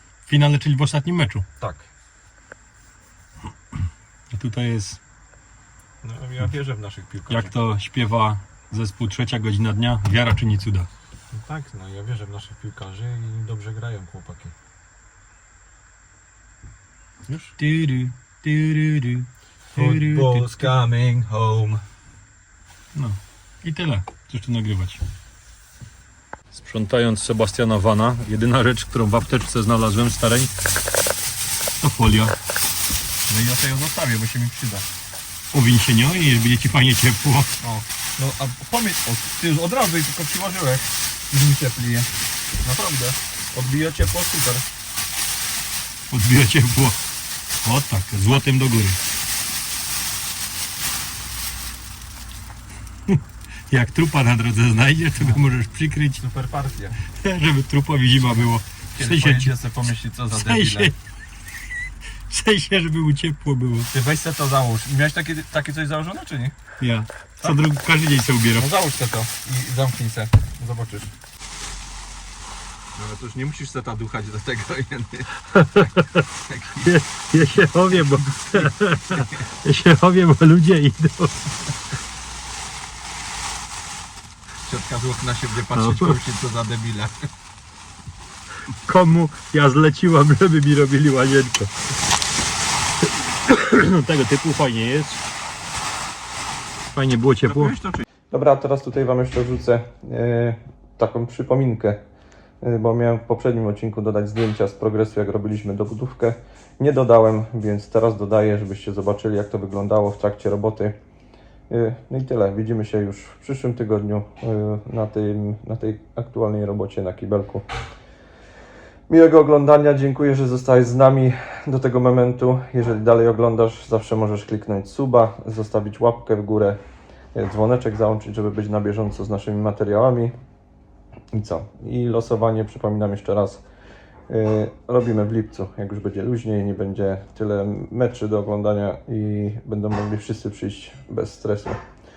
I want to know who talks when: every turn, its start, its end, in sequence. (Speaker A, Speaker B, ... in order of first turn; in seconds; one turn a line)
Speaker A: 0.3-1.4
Speaker B: 1.6-1.9
Speaker A: 4.3-5.0
Speaker B: 6.0-7.5
Speaker A: 7.3-10.9
Speaker B: 11.3-14.5
Speaker B: 17.3-17.5
Speaker A: 17.6-20.7
Speaker B: 19.7-21.8
Speaker A: 22.9-25.0
Speaker A: 26.5-30.5
Speaker A: 31.8-32.4
Speaker B: 33.2-34.9
Speaker A: 35.5-37.5
Speaker B: 37.6-44.7
Speaker A: 46.1-47.0
Speaker A: 47.6-49.0
Speaker A: 53.1-56.2
Speaker B: 55.2-55.4
Speaker B: 56.1-57.0
Speaker A: 57.0-59.5
Speaker B: 58.2-60.9
Speaker A: 60.3-61.0
Speaker A: 62.3-63.9
Speaker B: 63.9-66.5
Speaker A: 66.8-68.7
Speaker B: 68.5-71.1
Speaker B: 73.0-75.3
Speaker A: 75.5-76.2
Speaker B: 76.4-76.9
Speaker A: 76.8-81.5
Speaker B: 78.3-78.6
Speaker B: 79.1-79.4
Speaker B: 84.6-87.3
Speaker A: 85.7-86.2
Speaker A: 88.7-91.7
Speaker A: 93.4-95.2
Speaker A: 96.9-97.7
Speaker B: 97.5-102.0
Speaker B: 102.6-111.0
Speaker B: 111.7-117.6
Speaker B: 119.1-126.8
Speaker B: 127.3-130.3
Speaker B: 131.3-133.6
Speaker B: 134.3-141.8